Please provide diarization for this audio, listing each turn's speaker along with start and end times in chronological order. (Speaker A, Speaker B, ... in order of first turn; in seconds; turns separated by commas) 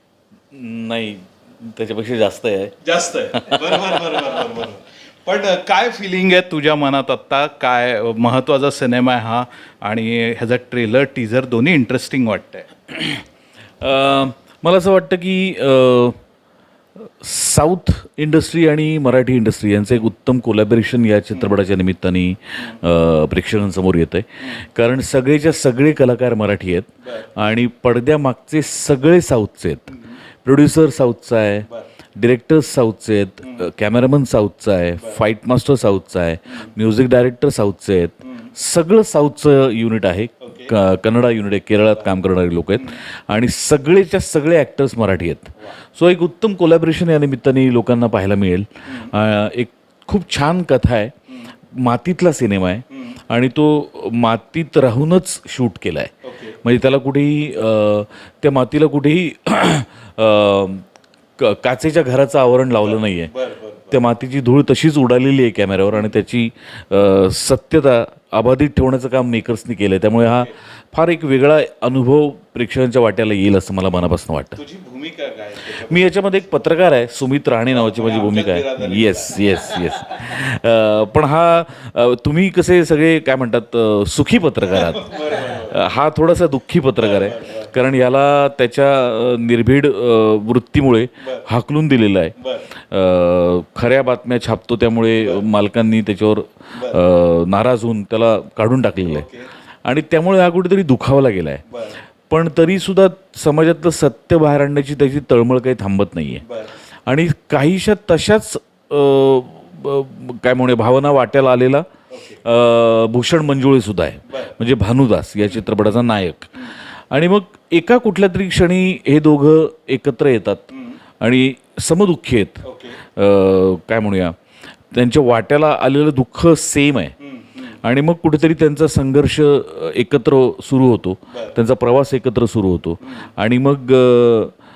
Speaker A: 0.5-2.8, Speaker B: 2.8-12.7, Speaker A: 3.3-4.4, Speaker A: 12.9-13.2, Speaker A: 13.8-16.2, Speaker A: 17.0-51.1, Speaker B: 38.2-38.5, Speaker B: 40.4-40.8, Speaker A: 51.7-56.1, Speaker B: 52.9-53.2, Speaker B: 56.2-56.6, Speaker A: 56.6-60.9, Speaker A: 61.4-63.3, Speaker B: 62.8-64.0, Speaker A: 63.9-74.6, Speaker B: 74.6-76.2, Speaker A: 75.7-99.3, Speaker B: 77.7-80.2, Speaker B: 84.6-85.8, Speaker B: 87.0-87.7, Speaker B: 91.2-91.5, Speaker B: 92.4-92.7, Speaker B: 96.7-97.0, Speaker B: 99.0-99.5, Speaker A: 99.8-101.6, Speaker B: 101.7-102.0, Speaker A: 102.3-106.5, Speaker B: 106.4-106.7, Speaker A: 107.1-111.9, Speaker B: 112.1-112.4, Speaker A: 112.4-120.7, Speaker B: 114.3-114.6, Speaker B: 120.7-121.0, Speaker A: 121.2-124.4, Speaker B: 122.6-123.0, Speaker A: 124.9-127.2, Speaker B: 127.2-127.7, Speaker A: 127.8-134.5, Speaker B: 131.3-131.6, Speaker B: 133.0-133.3